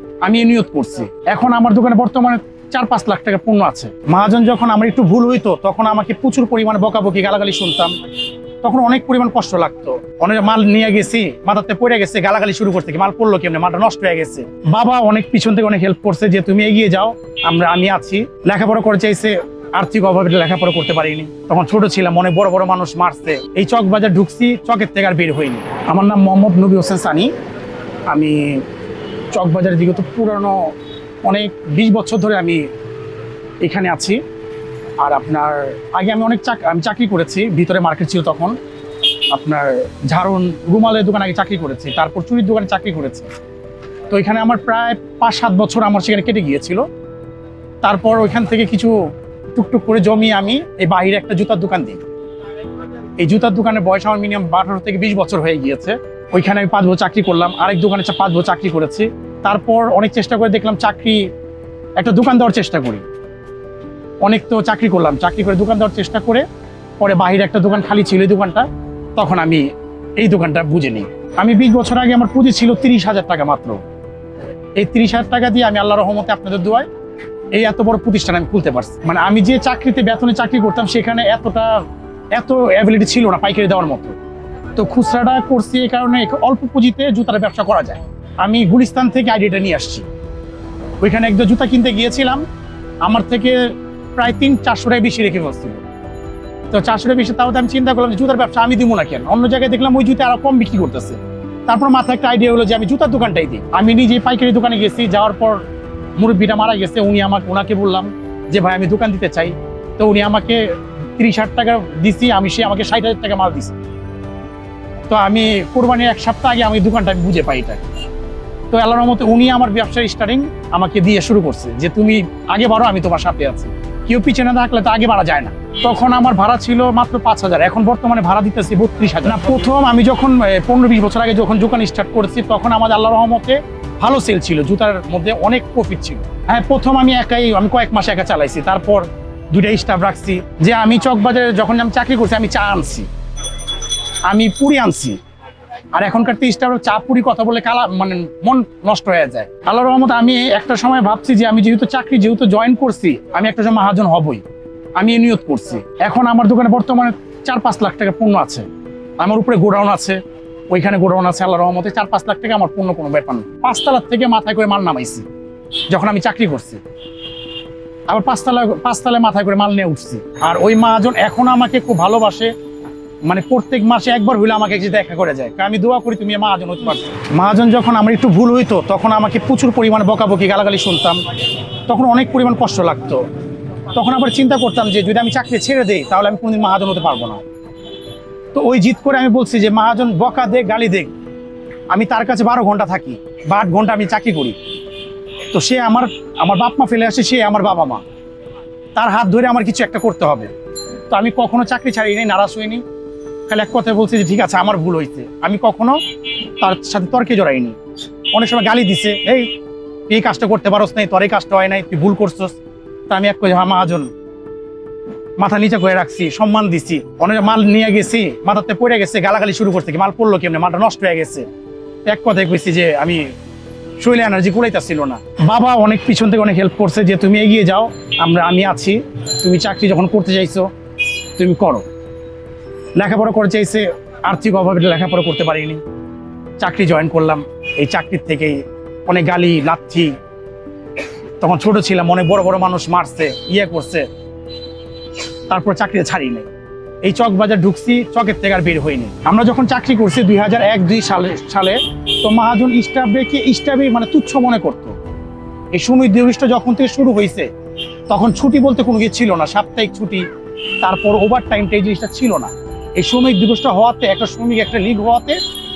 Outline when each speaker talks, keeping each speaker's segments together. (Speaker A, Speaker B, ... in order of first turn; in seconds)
Speaker A: 0.2-8.0, 8.6-27.3, 28.1-28.6, 29.3-30.7, 31.2-32.6, 33.6-34.2, 35.0-38.6, 39.3-43.3, 44.1-46.8, 47.8-48.9, 49.5-52.0, 53.2-61.3, 62.0-63.0, 64.2-66.5, 67.0-69.7, 70.2-73.8, 74.8-76.9, 77.5-81.8, 82.3-84.2, 84.8-90.0, 91.0-92.5, 93.0-95.8, 96.7-105.6, 106.2-110.7, 111.2-113.8, 115.1-117.8, 118.7-143.1, 144.2-145.2, 145.9-154.4, 155.0-158.7, 159.2-165.2, 165.9-166.8, 168.1-172.5, 173.3-181.2, 181.9-183.2, 183.9-187.4, 188.5-191.1, 191.9-194.6, 195.5-198.0, 198.9-200.5, 201.1-202.8, 203.5-207.8, 208.3-209.5, 210.1-212.6, 213.1-214.1, 215.4-221.5, 222.1-223.3, 224.0-230.7, 231.4-231.8, 233.0-235.8, 236.6-240.1, 241.4-244.1, 245.5-246.5, 247.0-255.0, 255.7-257.5, 258.1-260.2, 260.8-265.4